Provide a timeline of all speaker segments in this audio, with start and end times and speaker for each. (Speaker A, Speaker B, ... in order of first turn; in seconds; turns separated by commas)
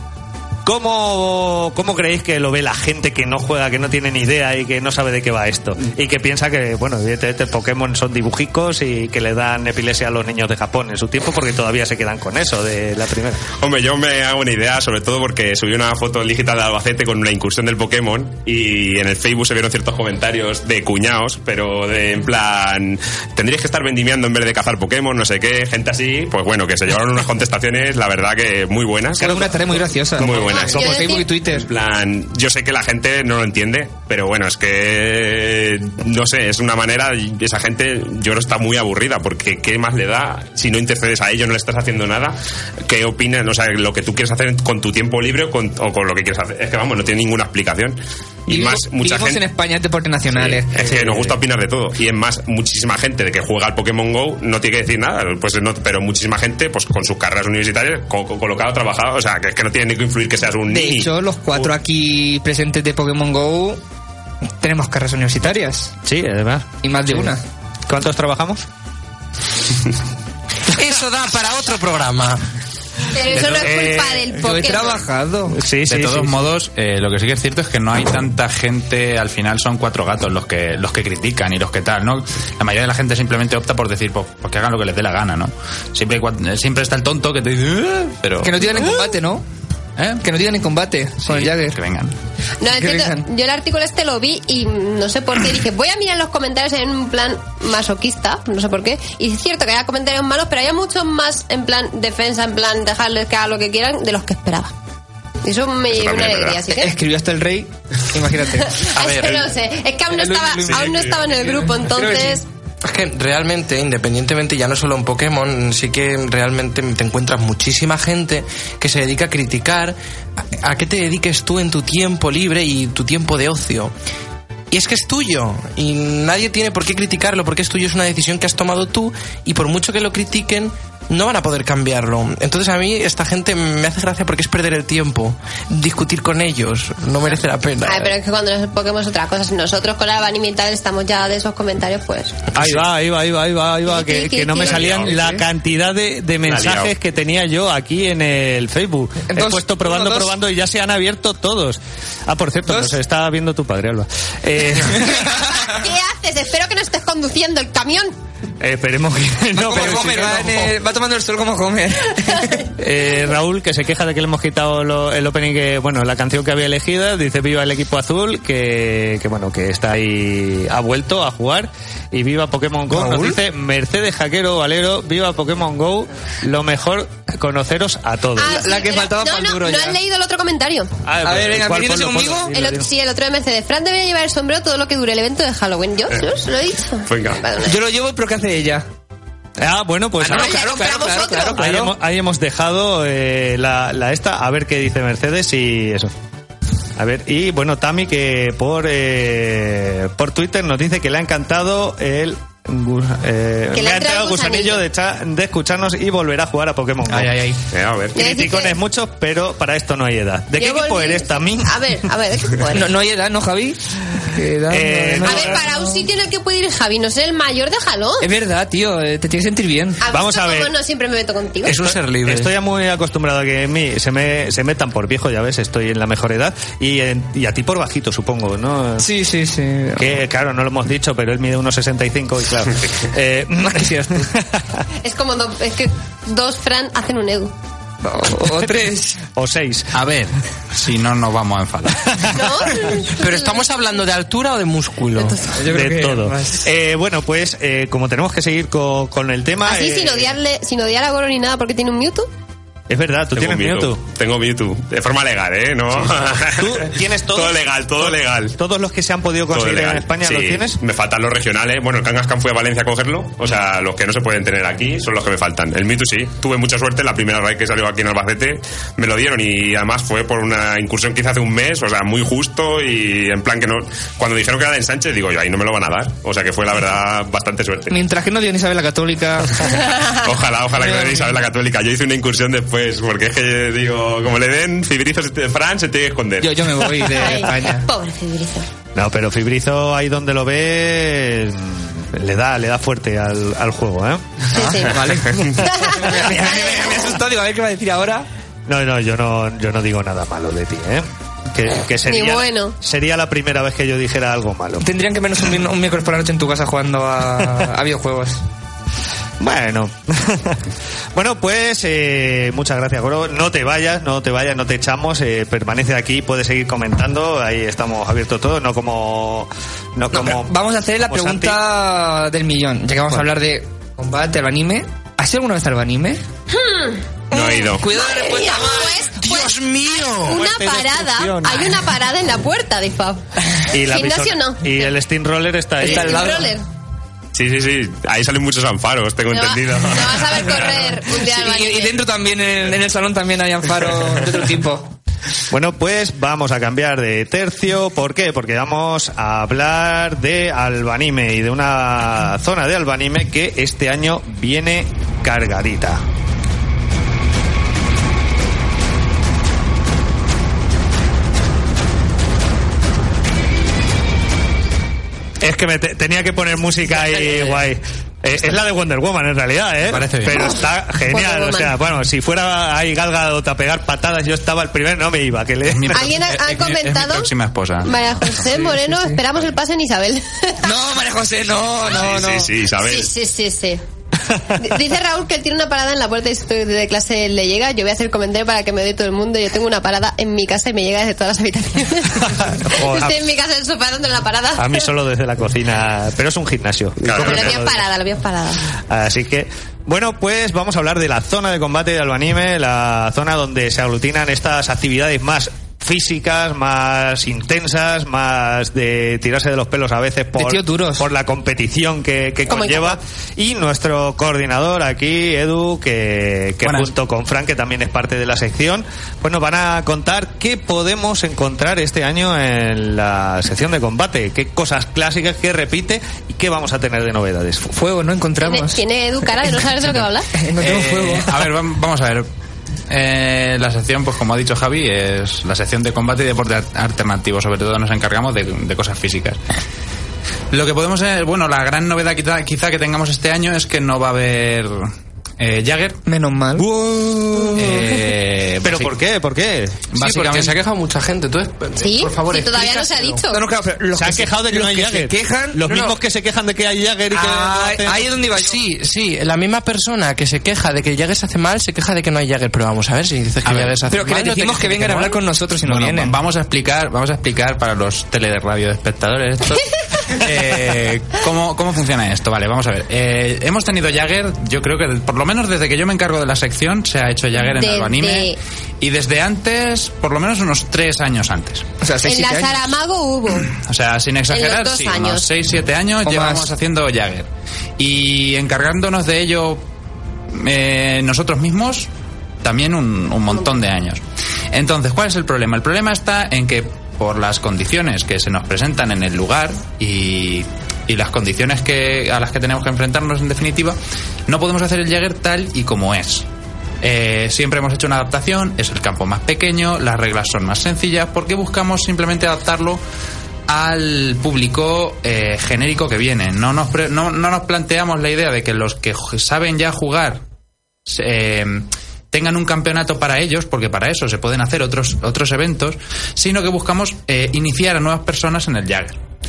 Speaker A: 0.6-13.4, Speaker B: 13.6-49.4, Speaker C: 29.2-31.7, Speaker A: 29.2-30.9, Speaker D: 30.5-31.2, Speaker C: 48.5-51.1, Speaker B: 50.3-61.7, Speaker A: 50.9-51.3, Speaker C: 60.7-63.8, Speaker C: 64.6-65.9, Speaker A: 66.0-67.3, Speaker C: 66.8-67.4, Speaker A: 67.9-68.6, Speaker E: 70.7-72.5, Speaker D: 73.1-75.0, Speaker A: 73.3-74.5, Speaker C: 74.3-75.6, Speaker A: 75.5-76.4, Speaker F: 75.8-88.9, Speaker C: 88.4-89.4, Speaker F: 90.0-90.2, Speaker C: 90.2-91.8, Speaker F: 91.2-92.1, Speaker D: 92.6-104.7, Speaker C: 92.7-93.3, Speaker D: 105.4-106.9, Speaker B: 105.9-106.6, Speaker C: 106.7-108.9, Speaker D: 108.8-112.4, Speaker E: 109.0-109.5, Speaker C: 110.1-111.1, Speaker C: 111.6-112.4, Speaker E: 112.8-120.0, Speaker E: 120.5-123.9, Speaker E: 124.7-138.1, Speaker D: 137.8-142.4, Speaker A: 142.5-155.3, Speaker D: 143.9-144.9, Speaker B: 144.7-145.2, Speaker C: 145.0-145.4, Speaker B: 146.4-146.9, Speaker C: 149.3-150.3, Speaker C: 152.7-153.0, Speaker C: 154.7-155.5, Speaker D: 155.3-158.1, Speaker A: 158.6-160.7, Speaker C: 159.5-162.7, Speaker A: 162.8-178.6, Speaker C: 172.9-173.4, Speaker D: 178.4-180.9, Speaker C: 178.4-180.0, Speaker A: 181.1-182.9, Speaker C: 181.2-182.5, Speaker D: 182.5-187.8, Speaker B: 187.1-187.4, Speaker C: 187.7-188.9, Speaker A: 189.6-190.7, Speaker C: 190.2-191.9, Speaker D: 190.3-191.6, Speaker A: 191.6-196.1, Speaker A: 197.0-207.4, Speaker D: 203.7-204.8, Speaker F: 207.1-207.6, Speaker B: 207.7-208.2, Speaker D: 208.1-208.8, Speaker A: 208.1-212.1, Speaker D: 210.6-212.9, Speaker C: 212.7-213.8, Speaker C: 214.3-216.0, Speaker A: 214.7-215.6, Speaker D: 215.2-218.3, Speaker C: 218.2-220.0, Speaker D: 220.0-221.9, Speaker A: 220.1-220.7, Speaker E: 221.6-222.5, Speaker A: 221.8-229.1, Speaker C: 229.0-230.2, Speaker A: 230.0-234.6, Speaker C: 233.6-234.3, Speaker D: 235.0-237.5, Speaker C: 238.0-239.2, Speaker A: 239.3-239.9, Speaker F: 239.9-242.3, Speaker A: 242.1-242.9, Speaker D: 242.3-243.6, Speaker E: 243.1-245.4, Speaker D: 245.2-245.5, Speaker C: 245.5-246.7, Speaker A: 245.7-250.3, Speaker D: 249.6-252.3, Speaker A: 252.9-254.0, Speaker B: 253.4-258.6, Speaker A: 255.9-260.8, Speaker B: 259.5-277.9, Speaker C: 277.9-280.0, Speaker B: 279.9-287.1, Speaker C: 280.8-281.3, Speaker C: 286.4-287.9, Speaker D: 287.1-288.6, Speaker A: 288.9-294.4, Speaker D: 294.5-295.1, Speaker C: 294.5-298.3, Speaker A: 295.4-296.1, Speaker D: 295.6-296.0, Speaker A: 298.7-304.9, Speaker D: 302.1-302.7, Speaker C: 304.8-308.4, Speaker A: 309.4-310.6, Speaker A: 311.1-321.6, Speaker C: 320.1-326.2, Speaker D: 326.5-327.0, Speaker B: 327.3-327.9, Speaker C: 327.3-329.0, Speaker D: 327.9-333.2, Speaker E: 329.1-330.4, Speaker A: 330.2-331.8, Speaker A: 333.7-336.4, Speaker D: 333.7-334.9, Speaker C: 335.8-336.6, Speaker D: 335.8-336.6, Speaker B: 337.3-340.6, Speaker D: 339.3-342.0, Speaker C: 341.1-344.9, Speaker A: 345.5-356.0, Speaker A: 365.4-376.1, Speaker F: 368.3-368.6, Speaker F: 369.8-370.6, Speaker D: 371.1-371.8, Speaker F: 375.6-378.7, Speaker D: 375.9-377.3, Speaker D: 377.8-380.7, Speaker C: 380.6-382.5, Speaker B: 381.8-383.1, Speaker D: 382.8-383.8, Speaker D: 384.6-394.9, Speaker A: 392.2-393.2, Speaker A: 394.6-397.8, Speaker B: 397.0-397.6, Speaker D: 397.1-398.6, Speaker A: 398.9-427.7, Speaker C: 410.4-411.1, Speaker D: 412.5-413.0, Speaker F: 416.6-416.9, Speaker C: 427.7-428.8, Speaker D: 428.4-430.3, Speaker C: 430.4-431.4, Speaker F: 430.6-432.3, Speaker F: 432.9-439.4, Speaker F: 440.5-446.0, Speaker C: 446.1-447.9, Speaker F: 447.5-448.9, Speaker A: 448.6-449.8, Speaker F: 449.9-450.6, Speaker E: 449.9-453.2, Speaker D: 451.8-453.4, Speaker C: 453.3-456.0, Speaker A: 453.9-458.1, Speaker C: 457.1-458.6, Speaker E: 458.3-465.2, Speaker F: 463.4-464.1, Speaker C: 463.9-466.1, Speaker F: 465.6-481.7, Speaker D: 477.4-478.4, Speaker C: 481.8-482.7, Speaker D: 482.0-483.5, Speaker F: 483.5-489.6, Speaker D: 484.3-485.3, Speaker C: 486.1-486.5, Speaker F: 490.3-491.9, Speaker F: 492.4-506.2, Speaker F: 506.8-512.8, Speaker F: 513.5-520.2, Speaker F: 520.9-529.0